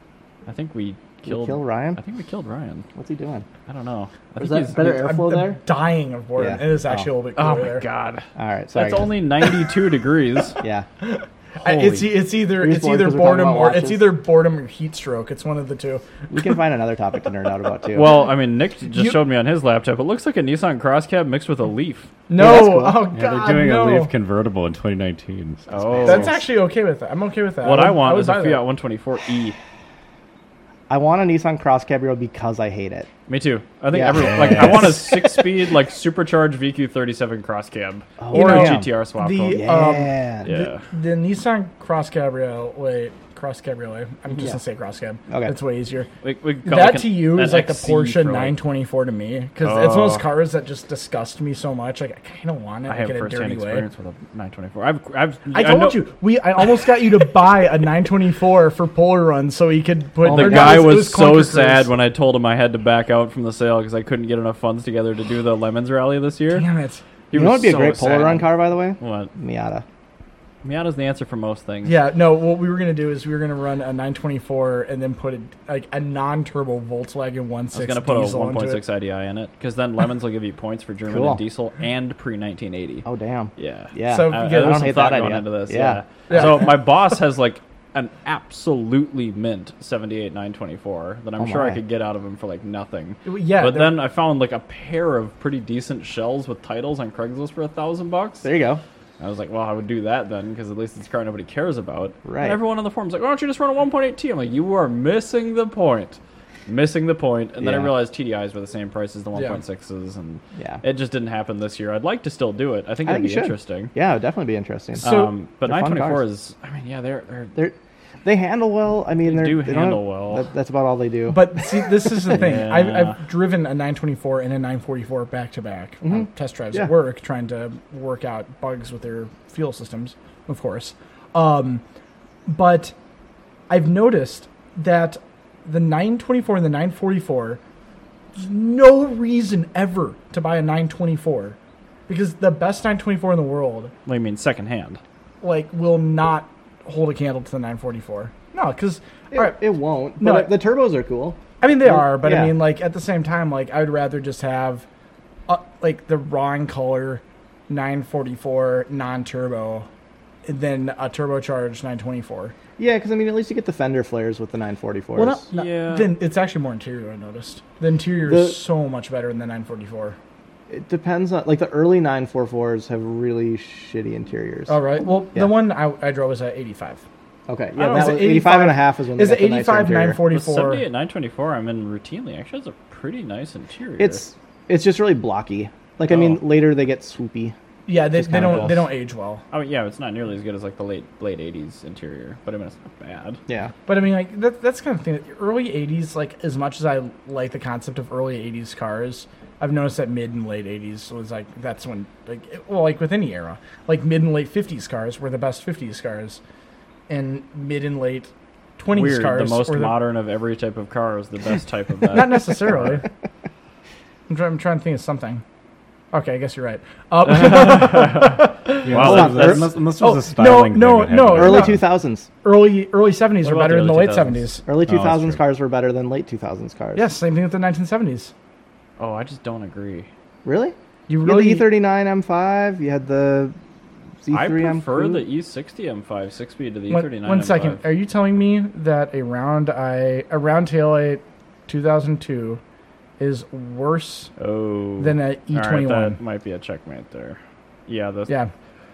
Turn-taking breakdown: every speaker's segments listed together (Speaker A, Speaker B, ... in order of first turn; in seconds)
Speaker A: 0.5-2.9, 3.7-5.0, 7.3-10.6, 11.6-12.1, 17.9-22.1, 25.7-26.4, 27.6-29.6, 33.3-39.7, 40.4-40.8, 46.2-48.6, 49.6-50.2, 52.9-56.0, 60.2-66.7, 67.3-69.3, 70.6-72.0, 77.7-83.0, 83.6-98.5, 99.2-113.9, 115.0-117.6, 119.2-120.5, 122.3-123.2, 144.1-145.0, 165.5-166.1, 177.8-178.2, 180.3-184.2, 186.1-186.4, 188.3-188.8, 189.5-193.4, 208.9-212.8, 217.2-219.7, 223.4-224.4, 229.0-230.1, 234.3-237.8, 244.4-248.3
Speaker B: 1.2-2.0, 2.9-3.5, 4.4-5.6, 6.4-7.1, 8.3-9.1, 10.6-10.8, 12.6-14.1, 16.3-18.2, 22.4-23.1, 25.8-26.3, 30.9-33.1, 33.9-35.5, 38.2-38.9, 39.5-40.5, 60.2-61.0, 67.3-69.8, 81.1-81.4, 83.0-86.6, 91.4-91.8, 98.4-98.8, 102.2-102.6, 107.6-107.9, 113.0-115.0, 115.6-116.2, 117.5-121.7, 126.0-126.9, 149.3-152.6, 162.8-165.4, 168.3-168.6, 170.7-174.8, 177.5-180.2, 184.0-187.5, 188.1-188.9, 193.5-193.7, 218.9-219.7, 221.3-222.3, 224.7-227.1, 230.4-233.5, 234.2-235.2
Speaker C: 4.8-7.8, 11.0-16.0, 22.3-24.1, 26.0-28.6, 38.3-46.1, 46.6-53.9, 55.5-61.9, 66.5-67.0, 71.8-78.8, 84.0-84.8, 86.3-86.7, 93.2-94.0, 115.0-115.3, 121.3-131.8, 132.5-132.9, 133.7-137.6, 138.3-141.6, 142.1-143.9, 145.4-149.6, 150.2-150.5, 151.6-154.8, 155.5-159.9, 160.4-162.5, 165.2-170.2, 174.7-177.0, 177.8-180.8, 187.8-189.4, 193.9-206.4, 207.1-210.0, 212.1-213.1, 214.3-215.4, 216.1-218.9, 220.0-221.9, 222.4-224.6, 226.9-228.3, 231.1-231.7, 236.9-242.6, 243.2-244.3, 245.0-246.2
Speaker D: 23.1-26.1, 34.1-34.9, 218.8-221.8, 224.9-225.4